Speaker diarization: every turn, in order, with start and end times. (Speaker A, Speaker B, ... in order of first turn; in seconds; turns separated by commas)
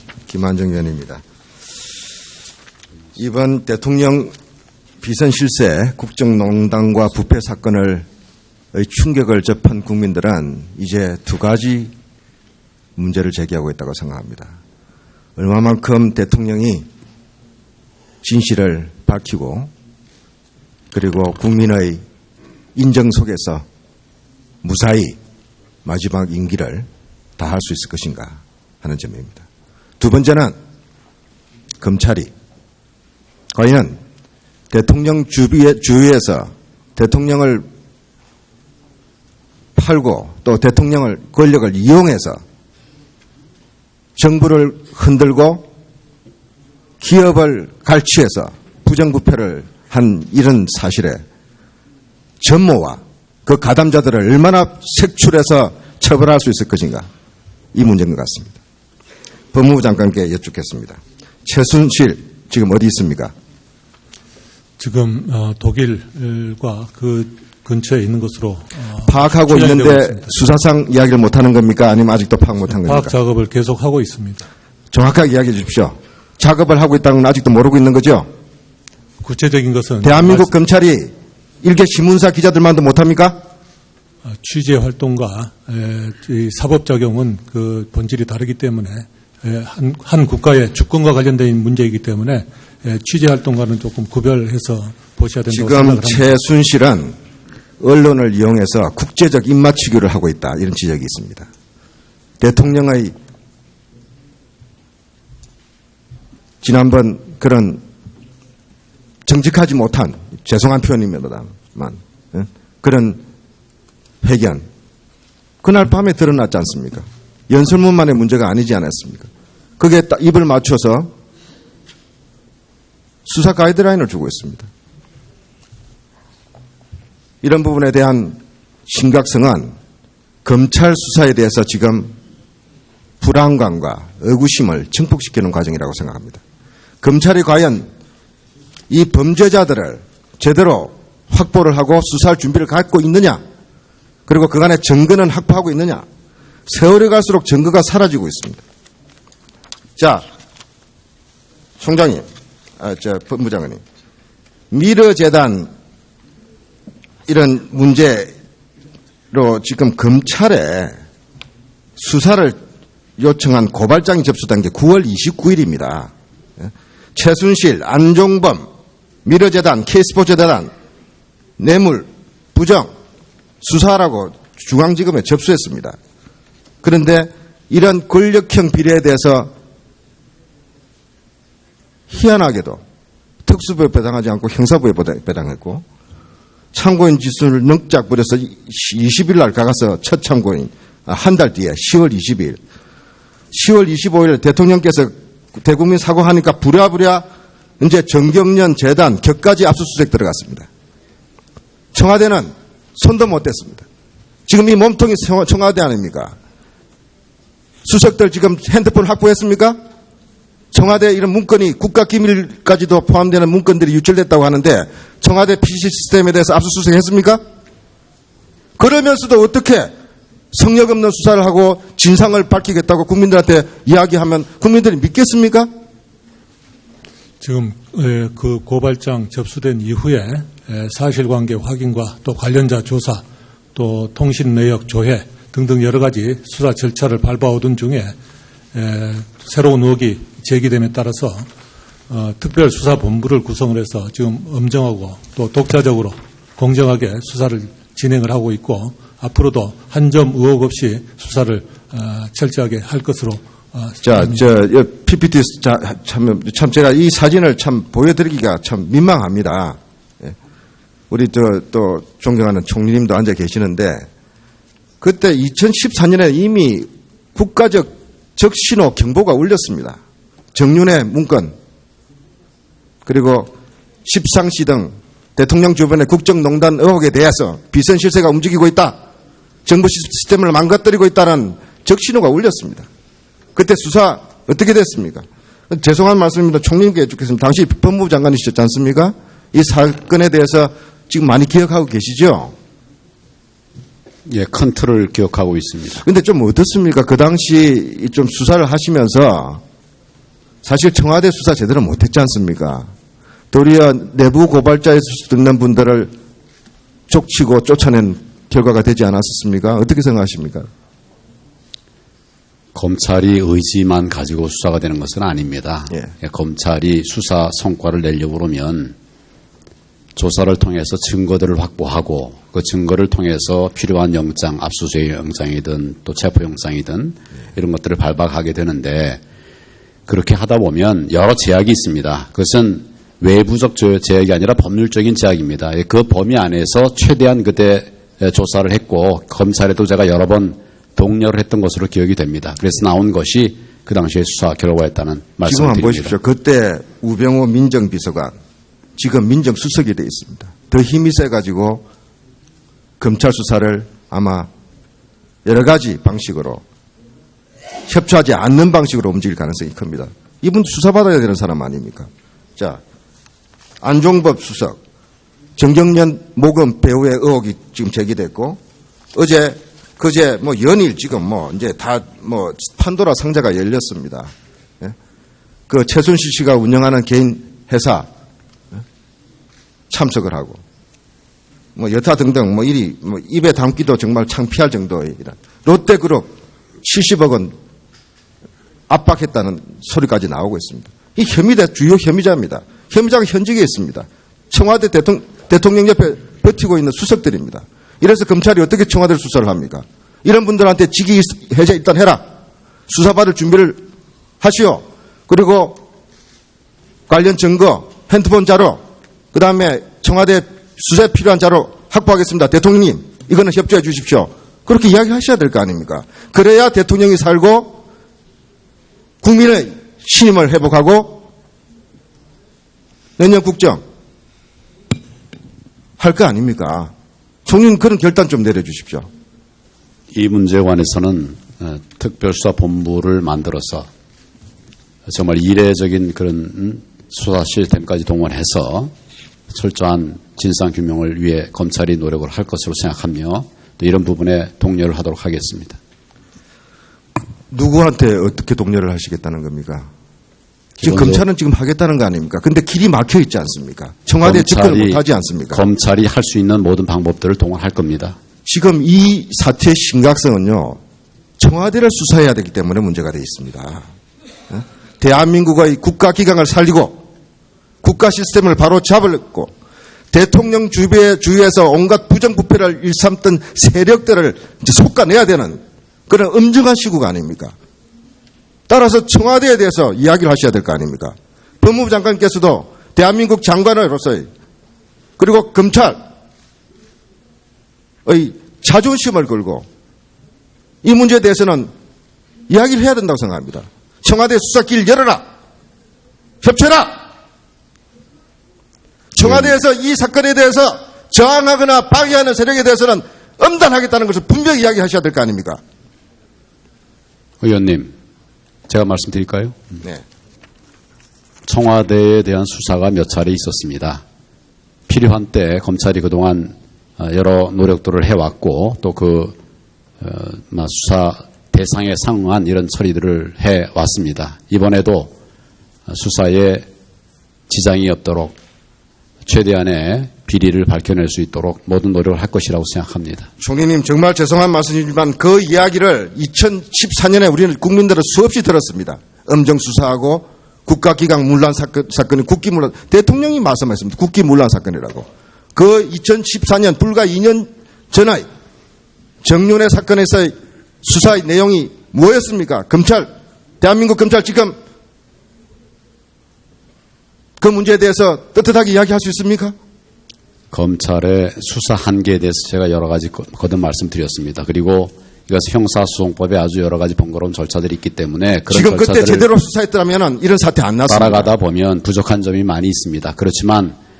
Speaker A: 0.3-1.2, Speaker A: 3.1-4.3, Speaker A: 5.0-8.1, Speaker A: 8.7-11.9, Speaker A: 12.9-14.5, Speaker A: 15.4-16.9, Speaker A: 18.2-19.7, Speaker A: 20.9-22.0, Speaker A: 22.8-23.6, Speaker A: 24.6-25.2, Speaker A: 25.8-26.9, Speaker A: 27.4-29.4, Speaker A: 30.0-30.6, Speaker A: 31.8-32.3, Speaker A: 33.5-34.0, Speaker A: 34.7-37.6, Speaker A: 39.8-42.4, Speaker A: 44.1-45.6, Speaker A: 47.0-51.2, Speaker A: 52.4-57.1, Speaker A: 57.7-58.6, Speaker A: 59.5-63.3, Speaker B: 64.8-70.3, Speaker A: 69.0-73.1, Speaker B: 72.7-74.5, Speaker A: 74.9-78.3, Speaker B: 79.2-80.5, Speaker A: 80.0-83.4, Speaker B: 84.3-96.4, Speaker A: 95.5-97.2, Speaker A: 97.8-101.5, Speaker A: 102.4-103.1, Speaker A: 106.6-107.8, Speaker A: 109.2-113.2, Speaker A: 114.2-114.6, Speaker A: 115.6-121.1, Speaker A: 123.2-124.7, Speaker A: 127.4-129.7, Speaker A: 130.4-132.1, Speaker A: 133.2-136.4, Speaker A: 137.0-137.9, Speaker A: 138.9-143.4, Speaker A: 144.3-146.0, Speaker A: 146.7-148.6, Speaker A: 150.0-150.2, Speaker A: 151.8-152.2, Speaker A: 152.8-153.8, Speaker A: 154.7-155.7, Speaker A: 157.3-158.3, Speaker A: 159.3-160.9, Speaker A: 162.0-162.6, Speaker A: 163.2-168.7, Speaker A: 169.2-170.7, Speaker A: 171.6-172.9, Speaker A: 173.6-175.9, Speaker A: 176.8-179.5, Speaker A: 182.1-182.8, Speaker A: 183.4-185.8, Speaker A: 186.7-192.6, Speaker A: 193.5-197.2, Speaker A: 197.8-200.7, Speaker A: 201.9-203.8, Speaker A: 204.5-206.3, Speaker A: 207.8-209.8, Speaker A: 210.7-217.4, Speaker A: 218.8-219.9, Speaker A: 220.5-225.7, Speaker B: 227.4-238.2, Speaker B: 238.7-241.5, Speaker B: 242.1-254.4, Speaker A: 254.0-260.3, Speaker A: 261.1-264.1, Speaker A: 265.0-270.0, Speaker A: 270.5-271.5, Speaker A: 273.1-273.5, Speaker A: 274.0-279.0, Speaker A: 279.6-282.9, Speaker A: 283.5-292.5, Speaker C: 294.2-296.0, Speaker A: 296.0-299.6, Speaker A: 300.6-302.9, Speaker A: 303.5-306.1, Speaker A: 307.1-310.7, Speaker C: 312.7-318.9, Speaker C: 320.1-329.2, Speaker C: 330.1-346.1, Speaker A: 345.4-348.3, Speaker A: 349.0-351.8, Speaker A: 353.0-354.5, Speaker A: 355.4-356.6, Speaker A: 357.9-362.8, Speaker A: 363.8-364.8, Speaker A: 365.6-368.6, Speaker A: 369.1-374.9, Speaker A: 375.7-378.1, Speaker A: 379.9-380.6, Speaker A: 381.8-387.5, Speaker A: 388.9-402.2, Speaker A: 402.9-403.8, Speaker A: 404.4-405.8, Speaker A: 407.1-408.8, Speaker A: 409.3-417.8, Speaker A: 419.2-421.2, Speaker A: 423.2-423.8, Speaker A: 426.0-426.9, Speaker A: 427.4-429.1, Speaker C: 430.1-433.9, Speaker C: 435.1-438.9, Speaker C: 439.5-445.8, Speaker A: 447.5-449.9, Speaker C: 450.8-451.2, Speaker A: 450.8-455.6, Speaker C: 454.2-458.2, Speaker A: 458.4-460.8, Speaker A: 461.4-463.8, Speaker A: 464.5-467.0, Speaker A: 467.8-469.5, Speaker A: 470.1-477.5, Speaker A: 478.7-484.3, Speaker A: 485.2-486.0, Speaker A: 488.1-489.6, Speaker A: 490.8-491.7, Speaker A: 492.5-495.2, Speaker A: 496.4-497.0, Speaker A: 499.1-505.6, Speaker C: 507.4-507.9, Speaker C: 508.7-509.6, Speaker C: 511.4-514.0, Speaker C: 514.9-519.4, Speaker C: 520.0-525.1, Speaker C: 525.9-526.7, Speaker C: 527.5-528.4, Speaker C: 529.2-533.3, Speaker A: 533.4-548.2, Speaker A: 549.2-553.1, Speaker A: 553.6-554.5, Speaker A: 557.4-559.5, Speaker C: 560.5-569.3, Speaker A: 568.5-571.3, Speaker C: 570.9-573.8